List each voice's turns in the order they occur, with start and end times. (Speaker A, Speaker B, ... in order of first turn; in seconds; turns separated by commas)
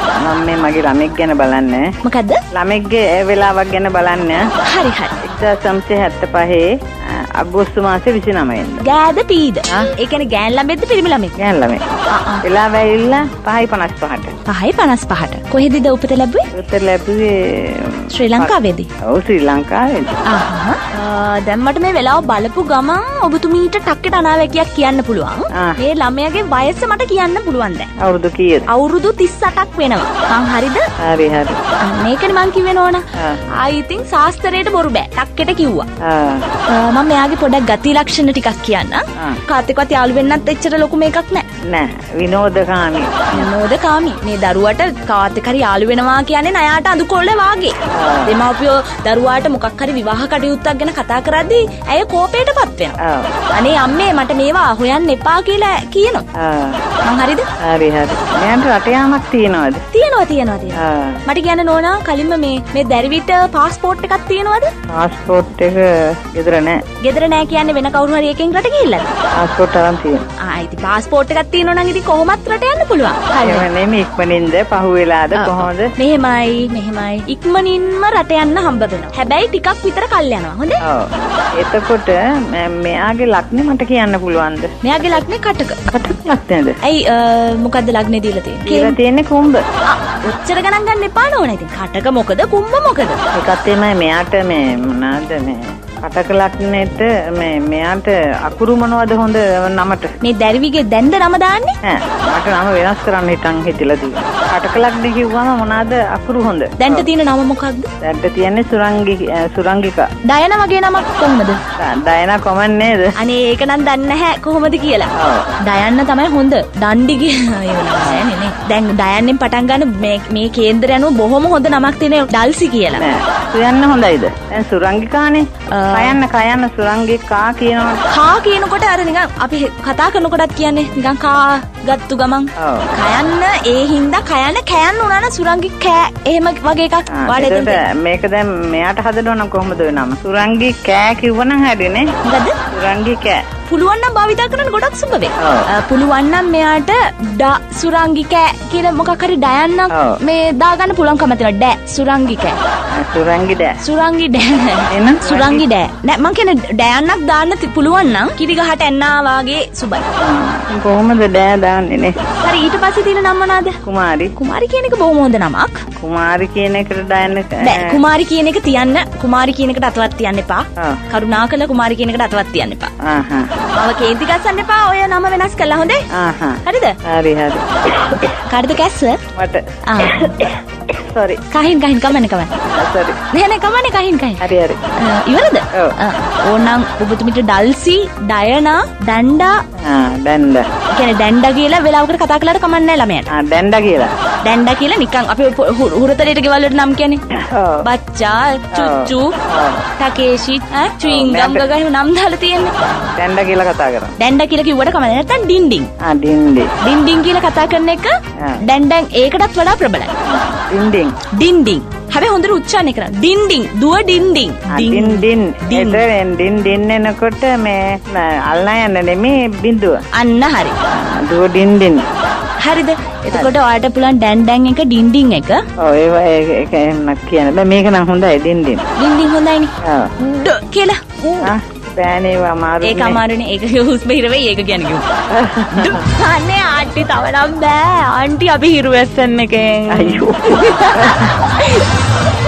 Speaker A: 0.2-1.9, Speaker B: 2.0-2.4, Speaker A: 2.5-4.5, Speaker B: 4.6-5.2, Speaker A: 5.2-8.8, Speaker B: 8.8-11.4, Speaker A: 11.4-11.8, Speaker B: 12.1-12.4, Speaker A: 12.4-14.3, Speaker B: 14.5-16.5, Speaker A: 16.5-20.2, Speaker B: 18.1-18.9, Speaker B: 20.3-27.9, Speaker A: 28.0-28.7, Speaker B: 28.7-30.9, Speaker A: 31.0-31.6, Speaker B: 31.8-35.9, Speaker A: 36.0-36.4, Speaker B: 36.7-41.5, Speaker A: 41.7-43.5, Speaker B: 43.3-53.0, Speaker A: 47.9-48.4, Speaker A: 53.0-53.3, Speaker B: 53.5-56.2, Speaker A: 56.4-56.8, Speaker B: 57.0-57.5, Speaker A: 57.6-59.8, Speaker B: 59.9-64.7, Speaker A: 60.8-61.2, Speaker A: 65.0-66.8, Speaker B: 67.0-69.1, Speaker A: 69.4-70.2, Speaker B: 70.4-73.7, Speaker A: 73.4-75.9, Speaker B: 75.3-80.8, Speaker A: 80.8-84.7, Speaker B: 84.8-85.8, Speaker A: 85.9-86.8, Speaker B: 86.8-89.0, Speaker A: 88.7-89.6, Speaker B: 89.9-93.2, Speaker A: 93.3-100.1, Speaker B: 100.2-101.8, Speaker A: 101.8-107.1, Speaker B: 106.8-107.9, Speaker A: 108.0-110.1, Speaker B: 110.3-111.6, Speaker A: 111.8-113.2, Speaker B: 113.2-115.1, Speaker A: 115.2-115.5, Speaker B: 115.6-123.1, Speaker A: 123.0-128.0, Speaker B: 125.7-126.2, Speaker B: 128.1-137.8, Speaker A: 132.6-132.9, Speaker A: 137.1-142.1, Speaker B: 142.2-142.6, Speaker A: 142.7-143.4, Speaker B: 143.7-152.6, Speaker A: 145.4-145.7, Speaker A: 149.9-150.2, Speaker A: 152.9-153.8, Speaker B: 153.8-160.1, Speaker A: 154.9-155.6, Speaker A: 160.2-162.2, Speaker B: 162.4-163.8, Speaker A: 163.8-164.3, Speaker B: 164.4-165.8, Speaker A: 166.0-168.0, Speaker B: 167.6-172.9, Speaker A: 173.0-173.5, Speaker B: 173.8-176.1, Speaker A: 176.1-178.3, Speaker B: 176.6-177.0, Speaker B: 178.4-179.2, Speaker A: 179.3-181.4, Speaker B: 179.9-180.3, Speaker B: 181.5-182.6, Speaker A: 182.7-183.2, Speaker B: 183.3-184.4, Speaker A: 184.4-184.8, Speaker B: 185.0-189.6, Speaker A: 189.8-190.7, Speaker B: 190.9-193.3, Speaker A: 193.3-194.1, Speaker B: 194.4-197.2, Speaker A: 197.3-197.9, Speaker B: 197.8-199.3, Speaker A: 198.7-199.9, Speaker B: 200.0-202.7, Speaker A: 201.0-201.7, Speaker A: 203.2-204.1, Speaker B: 204.2-205.9, Speaker A: 206.0-206.7, Speaker B: 206.8-210.1, Speaker A: 210.2-211.2, Speaker B: 211.3-216.0, Speaker A: 214.7-220.0, Speaker B: 220.1-220.8, Speaker A: 220.9-222.1, Speaker B: 222.6-225.6, Speaker A: 225.8-228.8, Speaker B: 229.0-231.5, Speaker A: 229.8-230.1, Speaker A: 231.4-233.2, Speaker B: 232.8-235.1, Speaker A: 235.3-236.1, Speaker B: 235.7-241.9, Speaker A: 239.9-241.3